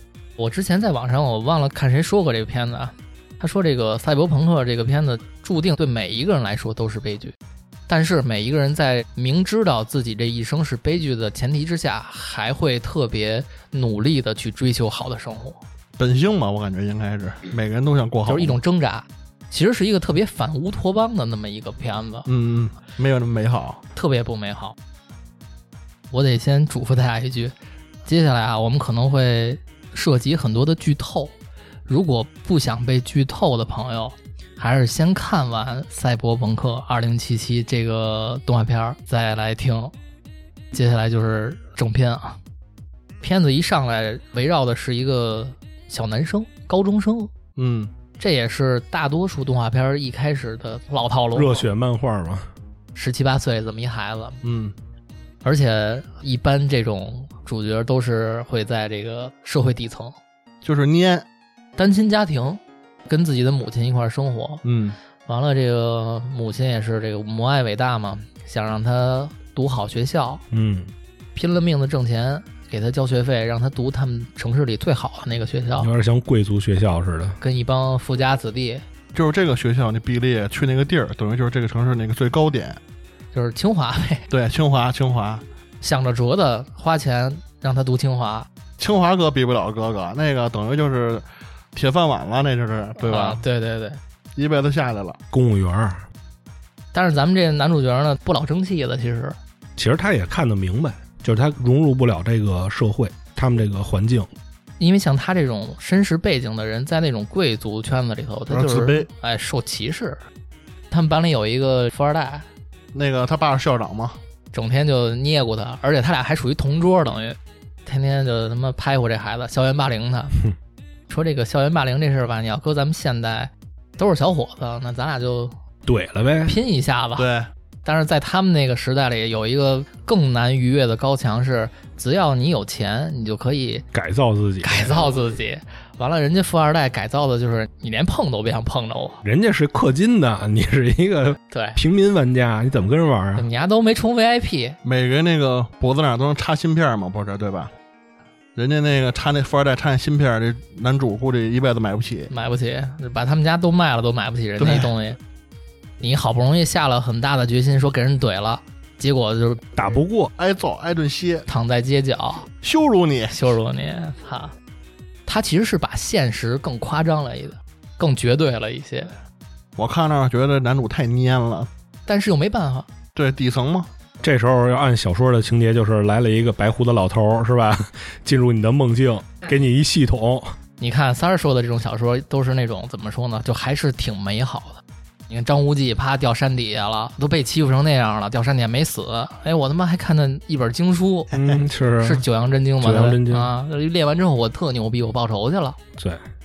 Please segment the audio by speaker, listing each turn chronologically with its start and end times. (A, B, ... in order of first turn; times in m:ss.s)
0:00.4-0:07.3 A
0:07.9-0:15.6 A
0:16.0-0:18.6 B
0:18.3-0:22.3 A
0:22.3-0:23.8 B
0:23.9-0:24.8 A
0:26.1-0:31.4 A
0:31.9-0:39.9 A
0:40.7-0:42.4 A
0:43.2-0:47.3 A
0:47.6-0:47.9 B
0:48.2-0:51.6 A
0:51.3-0:52.5 C
0:52.9-0:54.4 A
0:54.4-0:54.8 B
0:55.4-1:00.2 A
1:00.6-1:01.2 B
1:01.8-1:04.6 A
1:04.6-1:05.0 B
1:05.2-1:10.4 A
1:10.5-1:10.9 C
1:11.4-1:15.9 A
1:15.8-1:17.4 C
1:17.4-1:18.8 A
1:19.1-1:22.8 B
1:23.3-1:24.3 A
1:24.3-1:25.4 B
1:25.8-1:28.5 A
1:28.8-1:33.4 B
1:33.0-1:34.0 A
1:34.4-1:35.2 B
1:35.3-1:36.0 C
1:36.9-1:39.4 A
1:39.8-1:44.3 C
1:44.8-1:50.2 A
1:48.5-1:49.1 B
1:50.9-1:52.5 A
1:52.9-1:54.2 B
1:54.5-2:00.4 A
2:01.1-2:05.6 A
2:05.9-2:06.6 C
2:06.5-2:07.2 A
2:07.2-2:07.5 B
2:07.8-2:13.9 A
2:13.9-2:15.0 C
2:14.6-2:19.2 A
2:19.2-2:23.5 C
2:21.5-2:21.8 A
2:23.4-2:24.8 A
2:24.8-2:27.7 B
2:28.6-2:32.3 B
2:32.3-2:35.2 A
2:34.6-2:34.9 B
2:36.0-2:39.6 A
2:39.8-2:40.3 C
2:40.4-2:41.5 B
2:41.5-2:42.5 A
2:42.6-2:43.4 B
2:43.3-2:44.5 A
2:45.2-2:49.2 A
2:49.8-2:51.7 B
2:52.1-2:52.9 A
2:53.1-2:53.9 B
2:54.2-3:00.6 C
3:00.8-3:11.3 A
3:11.3-3:12.2 C
3:12.0-3:15.8 A
3:12.8-3:13.5 C
3:16.0-3:16.2 C